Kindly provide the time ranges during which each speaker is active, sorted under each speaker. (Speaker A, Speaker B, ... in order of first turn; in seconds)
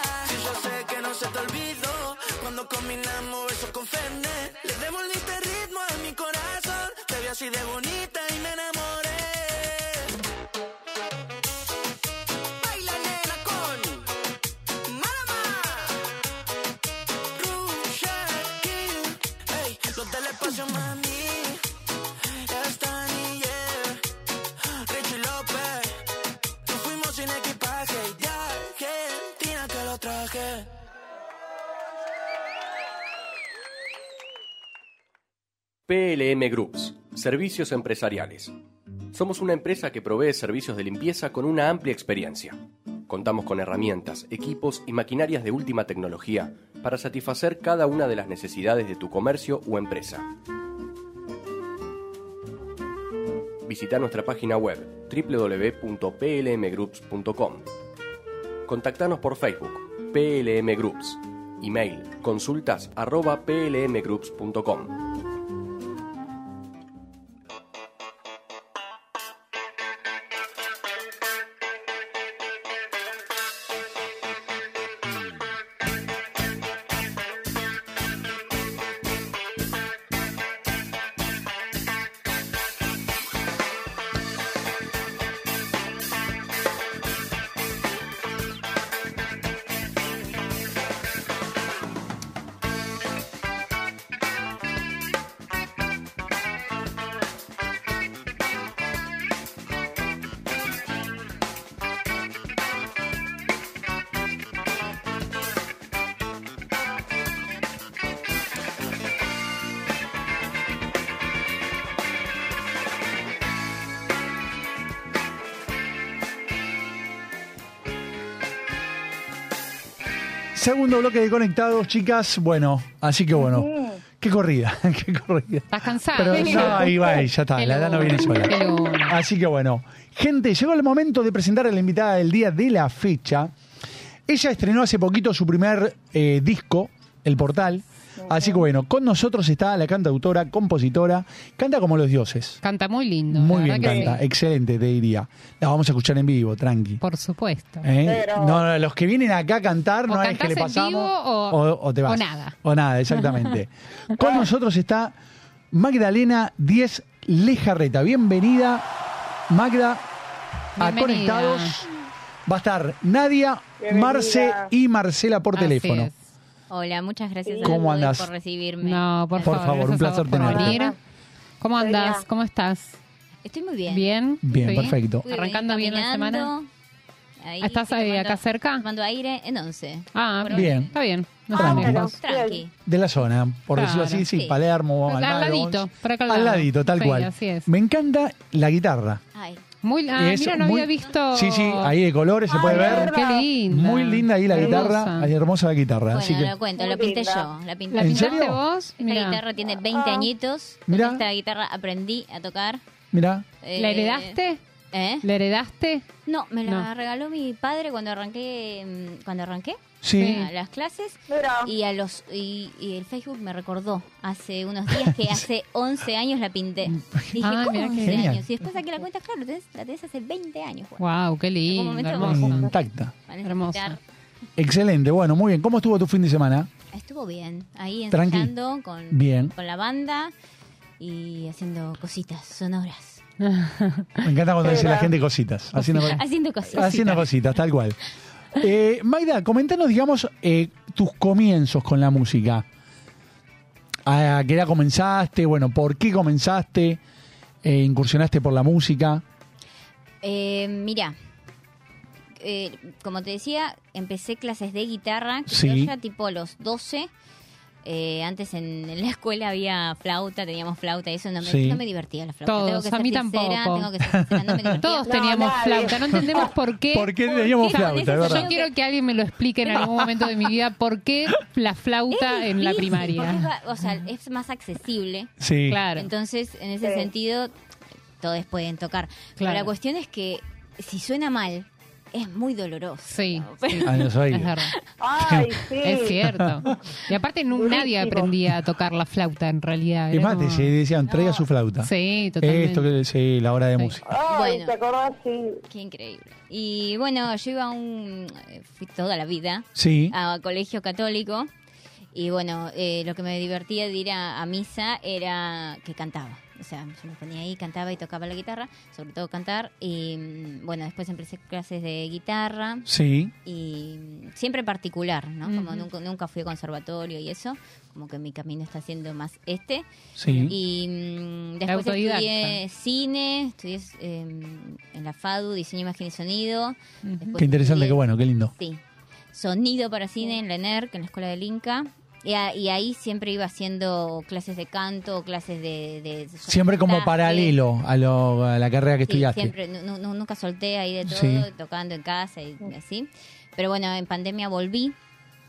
Speaker A: 0.2-10.1, 12.6-14.1, 14.9-15.9, 17.4-21.6, 22.5-24.1, 24.9-26.0, 26.6-30.7
Speaker B: 35.9-38.5, 39.1-50.3, 53.6-57.7, 58.7-65.0
Speaker C: 120.5-133.5, 134.3-142.6, 143.3-147.0, 147.8-155.2, 155.7-158.9, 159.5-160.1, 160.8-161.9, 162.5-166.1, 167.7-168.3, 169.4-170.8, 174.4-175.3, 180.5-180.9, 181.5-182.1, 182.8-189.2, 190.2-196.5, 198.0-198.6, 200.9-201.2, 203.1-203.5, 210.0-210.4, 217.1-217.4, 218.0-218.4, 222.2-223.2, 224.6-226.7, 228.1-228.5, 229.1-229.6, 234.2-238.0, 238.6-242.7, 244.1-247.0, 247.6-249.2, 255.5-255.9, 261.4-261.8, 264.1-264.8, 266.9-268.5, 269.7-270.1, 275.4-275.8, 283.8-284.6, 285.2-285.5, 286.2-286.8, 290.1-294.1, 299.8-300.1, 312.9-313.3, 320.2-320.5, 327.4-328.5, 336.5-339.5, 341.1-341.5
Speaker D: 123.4-124.0, 126.6-127.1, 138.2-138.6, 148.1-148.6, 154.2-154.5, 163.8-164.7, 167.5-167.8, 170.6-171.0, 171.8-172.2, 181.6-182.6, 192.5-193.5, 196.8-197.5, 199.9-200.3, 211.3-211.7, 234.6-235.1, 265.1-266.5, 285.0-286.2, 287.5-288.3, 294.1-295.6
Speaker E: 125.7-126.9, 127.6-129.2, 142.6-144.2, 147.0-147.9, 150.1-152.6, 153.2-153.5, 160.8-161.8, 165.5-166.2, 168.8-170.9, 171.6-173.0, 173.9-176.5, 177.6-178.9, 180.1-182.1, 183.8-184.3, 185.1-187.7, 189.8-191.9, 192.7-195.3, 197.9-199.4, 203.8-204.6, 205.2-206.1, 210.2-210.5, 217.4-218.3, 221.0-222.7, 223.4-224.0, 233.4-234.2, 235.8-236.2, 236.7-237.2, 262.5-263.9, 264.8-273.5, 275.7-276.1, 279.4-279.7, 283.1-284.7, 285.8-290.7, 291.8-292.9, 315.5-315.9, 320.3-320.5, 321.7-322.6, 327.0-327.4
Speaker F: 166.7-169.9, 173.4-174.1, 174.6-176.7, 177.4-180.9, 181.5-182.7, 184.2-184.6, 189.3-189.6, 196.1-202.8, 203.6-204.4, 204.9-205.2, 206.3-221.0, 221.6-222.7, 223.3-224.0, 226.9-230.3, 231.0-233.2, 235.9-237.2, 250.2-251.2, 252.4-257.1, 257.8-265.6, 267.3-268.7, 272.1-275.3, 275.9-277.5, 278.2-284.1, 291.1-291.4, 294.2-294.8, 295.7-301.5, 302.1-312.9, 313.4-319.9, 320.4-328.0, 328.5-328.8, 329.3-337.6, 339.1-345.0